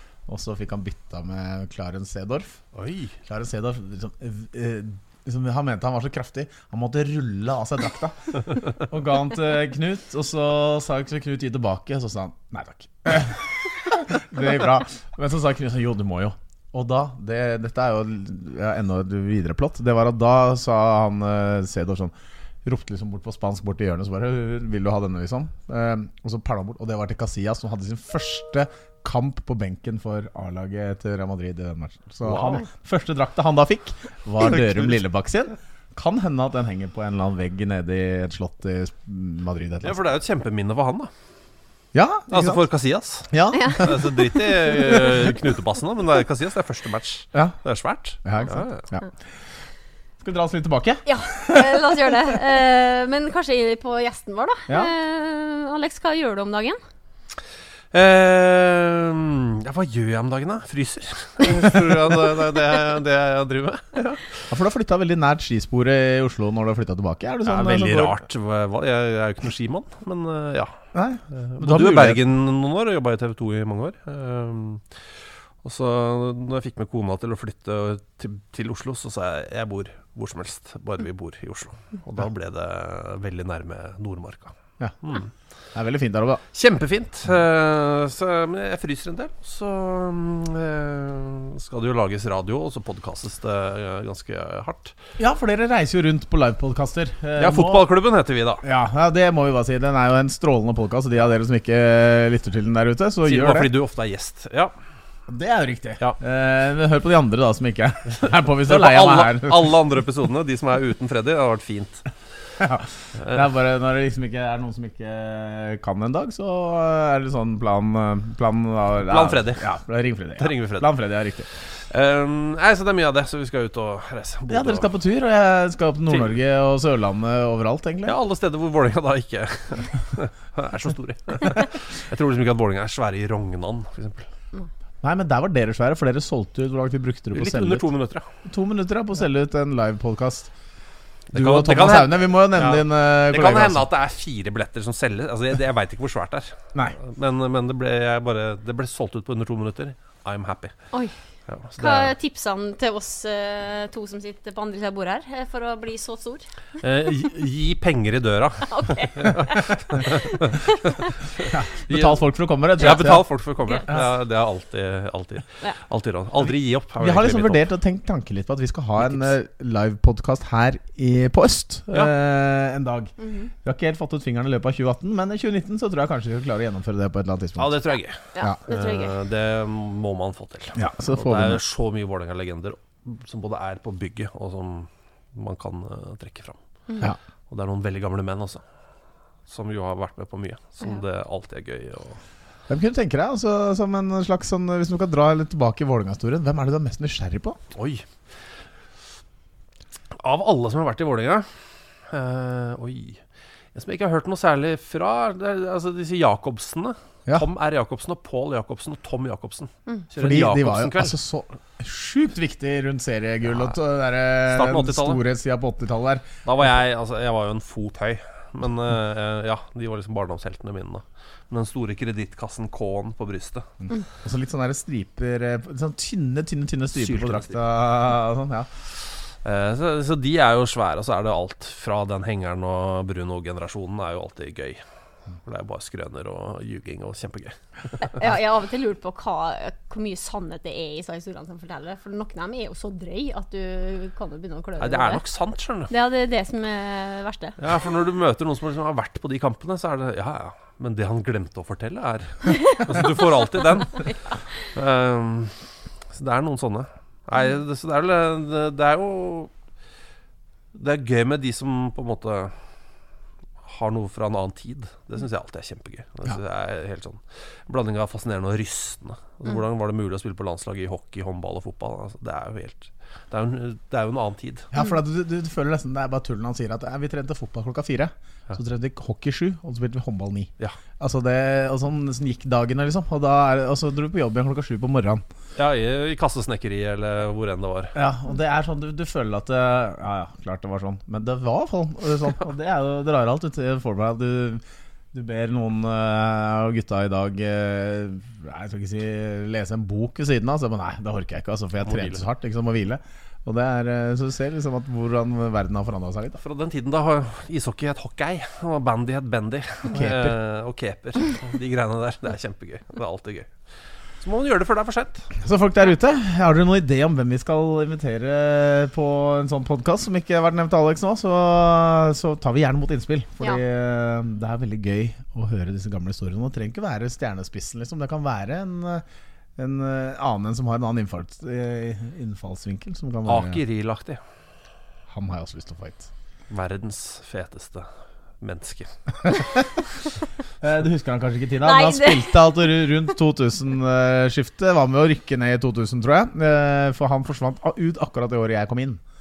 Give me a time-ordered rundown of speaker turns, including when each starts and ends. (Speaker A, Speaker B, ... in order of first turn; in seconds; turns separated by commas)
Speaker A: 0.3-2.6, Speaker B: 2.7-3.1, Speaker A: 3.2-22.1, Speaker A: 22.6-40.0, Speaker B: 32.2-32.6, Speaker B: 34.4-35.0, Speaker B: 39.8-41.1, Speaker A: 41.9-42.6, Speaker B: 42.3-48.9, Speaker A: 43.3-45.3, Speaker C: 43.5-44.4, Speaker A: 48.2-49.1, Speaker A: 50.2-51.7, Speaker C: 51.1-56.8, Speaker B: 57.9-64.5, Speaker A: 64.5-68.2, Speaker B: 67.5-85.3, Speaker A: 70.9-72.2, Speaker A: 85.7-86.4, Speaker B: 86.5-95.0, Speaker A: 95.2-97.9, Speaker B: 97.4-98.6, Speaker A: 98.6-103.7, Speaker B: 103.2-104.7, Speaker A: 105.3-109.8, Speaker B: 108.7-112.0, Speaker A: 112.6-121.5, Speaker B: 119.1-119.7, Speaker B: 120.4-120.9, Speaker B: 121.5-124.9, Speaker A: 124.5-128.2, Speaker B: 126.1-126.4, Speaker B: 128.1-134.3, Speaker A: 135.0-137.9, Speaker B: 137.3-138.3, Speaker A: 138.4-140.5, Speaker B: 141.3-150.8, Speaker A: 141.3-143.9, Speaker B: 151.5-152.1, Speaker C: 151.8-156.5, Speaker B: 156.8-160.6, Speaker C: 158.7-160.9, Speaker A: 161.5-164.1, Speaker B: 161.9-162.2, Speaker B: 162.8-167.6, Speaker A: 167.0-177.8, Speaker B: 169.0-169.3, Speaker C: 173.2-173.5, Speaker B: 177.6-186.6, Speaker C: 178.3-179.2, Speaker A: 180.8-181.6, Speaker B: 187.5-188.6, Speaker B: 189.5-192.2, Speaker A: 192.7-197.6, Speaker B: 197.7-198.3, Speaker B: 200.2-211.2, Speaker A: 210.2-216.3, Speaker B: 214.4-215.2, Speaker B: 216.4-223.7, Speaker A: 223.8-228.7, Speaker B: 226.9-227.6, Speaker B: 229.2-234.8, Speaker B: 235.4-238.2, Speaker C: 238.1-245.2, Speaker B: 244.8-245.9, Speaker C: 245.9-247.6, Speaker B: 247.6-254.1, Speaker C: 252.5-253.3, Speaker C: 253.8-254.7, Speaker B: 254.6-259.5, Speaker B: 260.7-262.7, Speaker B: 263.6-274.7, Speaker A: 274.7-285.2, Speaker B: 285.6-287.9, Speaker A: 287.9-294.6, Speaker A: 295.1-306.4, Speaker B: 301.8-302.2, Speaker B: 306.4-313.7, Speaker A: 309.9-310.4, Speaker B: 314.2-315.3, Speaker A: 315.4-329.0, Speaker A: 329.6-333.6, Speaker B: 333.3-334.2, Speaker A: 335.1-336.1, Speaker B: 336.5-338.9, Speaker A: 340.6-349.0, Speaker C: 341.6-342.7